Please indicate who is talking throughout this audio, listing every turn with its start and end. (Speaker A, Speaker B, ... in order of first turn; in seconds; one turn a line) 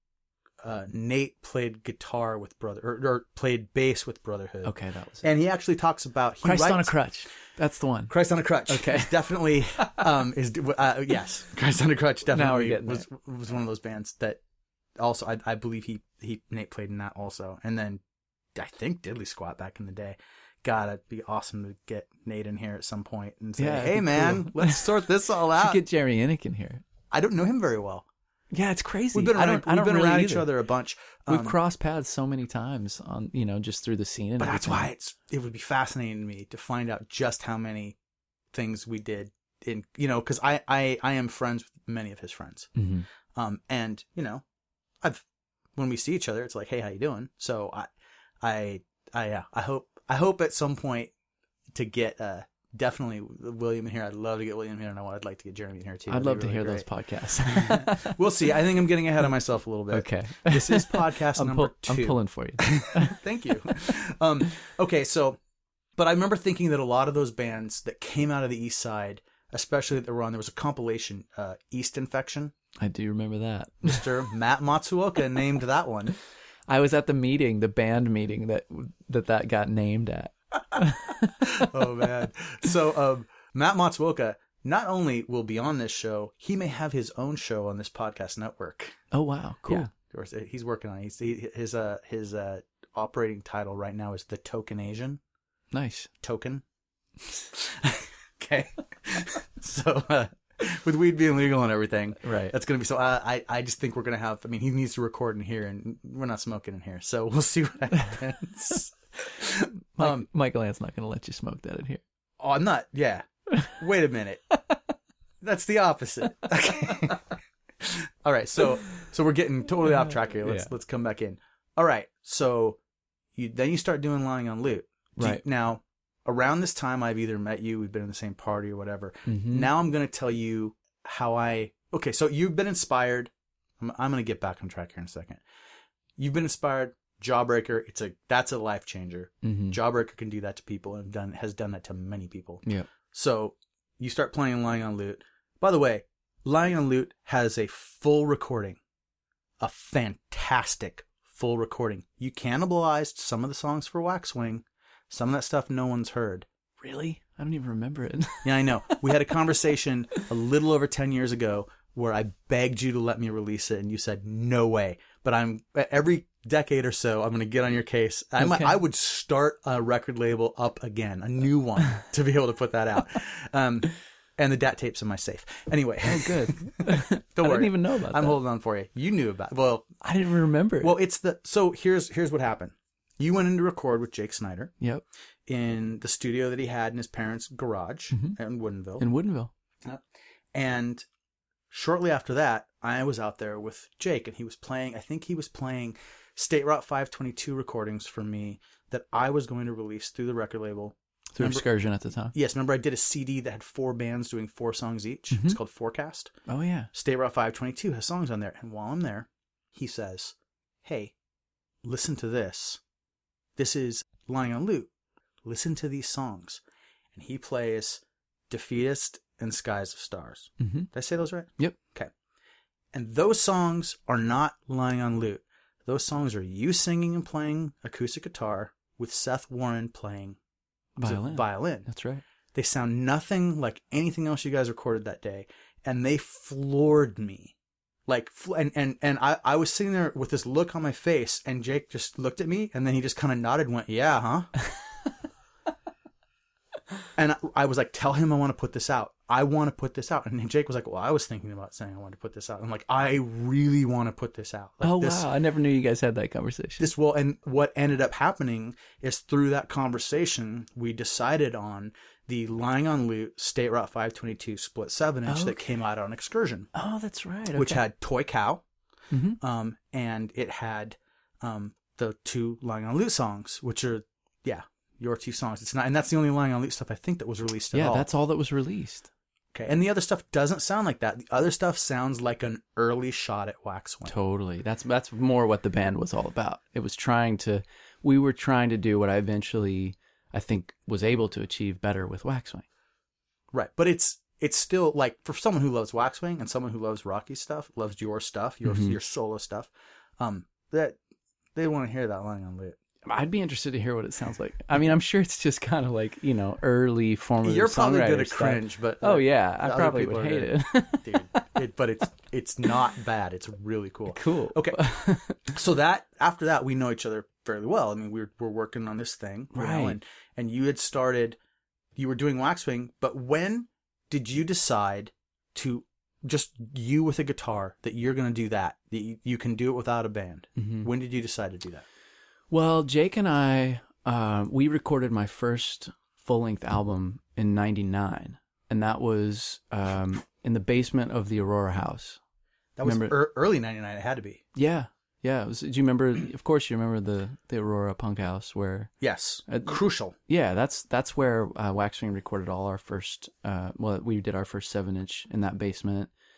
Speaker A: 0.6-7.0
Speaker B: 4.6-5.3
Speaker B: 6.4-8.2
Speaker A: 8.1-14.4
Speaker B: 8.7-9.2
Speaker B: 12.3-13.1
Speaker A: 15.0-18.0
Speaker A: 18.6-25.8
Speaker B: 23.6-26.8
Speaker A: 27.1-28.1
Speaker B: 28.5-30.5
Speaker A: 29.1-31.6
Speaker B: 31.3-34.9
Speaker A: 34.4-38.0
Speaker A: 38.5-42.7
Speaker B: 42.8-43.1
Speaker A: 43.4-44.4
Speaker A: 45.8-47.9
Speaker A: 48.4-51.1
Speaker A: 51.7-56.9
Speaker B: 56.1-58.2
Speaker A: 57.4-65.4
Speaker B: 59.9-63.2
Speaker A: 66.0-72.5
Speaker B: 72.8-74.1
Speaker A: 73.8-76.2
Speaker B: 76.7-82.1
Speaker A: 81.4-89.0
Speaker B: 89.1-89.9
Speaker A: 89.7-95.2
Speaker B: 95.7-96.1
Speaker A: 96.2-96.6
Speaker A: 97.5-110.3
Speaker B: 102.2-102.5
Speaker B: 110.0-112.0
Speaker A: 112.4-114.4
Speaker A: 115.4-117.3
Speaker A: 117.8-122.8
Speaker B: 120.4-120.7
Speaker A: 123.4-135.4
Speaker B: 125.2-125.4
Speaker B: 129.3-129.7
Speaker A: 136.2-148.8
Speaker B: 139.4-139.8
Speaker B: 142.6-142.9
Speaker A: 149.6-156.5
Speaker B: 156.8-159.0
Speaker A: 158.4-179.9
Speaker B: 168.4-168.8
Speaker B: 176.0-178.4
Speaker B: 180.0-181.0
Speaker A: 180.8-184.7
Speaker A: 185.5-189.1
Speaker B: 188.1-188.4
Speaker B: 189.0-189.5
Speaker A: 190.5-191.1
Speaker A: 191.7-201.7
Speaker B: 201.3-202.3
Speaker A: 202.3-206.3
Speaker B: 205.3-205.6
Speaker B: 206.5-206.9
Speaker A: 206.9-211.1
Speaker A: 211.8-212.8
Speaker A: 213.6-214.9
Speaker A: 215.4-216.6
Speaker A: 217.1-222.1
Speaker B: 220.6-220.9
Speaker A: 222.9-230.4
Speaker A: 231.0-231.9
Speaker B: 231.0-232.2
Speaker A: 232.5-237.5
Speaker A: 238.1-244.5
Speaker A: 247.2-255.3
Speaker B: 254.8-256.9
Speaker A: 256.8-266.7
Speaker B: 265.3-265.7
Speaker B: 266.7-267.8
Speaker A: 267.5-268.6
Speaker B: 269.1-269.4
Speaker A: 269.4-278.1
Speaker B: 277.7-279.1
Speaker A: 279.5-284.1
Speaker B: 284.1-292.6
Speaker A: 293.5-301.0
Speaker B: 298.6-299.0
Speaker A: 301.6-302.8
Speaker B: 303.0-311.4
Speaker A: 307.4-314.9
Speaker B: 314.1-315.4
Speaker A: 315.5-321.4
Speaker B: 319.5-320.0
Speaker A: 322.0-331.9
Speaker B: 330.6-330.9
Speaker B: 332.5-342.2
Speaker A: 342.8-344.4
Speaker B: 342.8-343.2
Speaker B: 344.6-348.9
Speaker A: 349.0-350.2
Speaker B: 349.5-356.1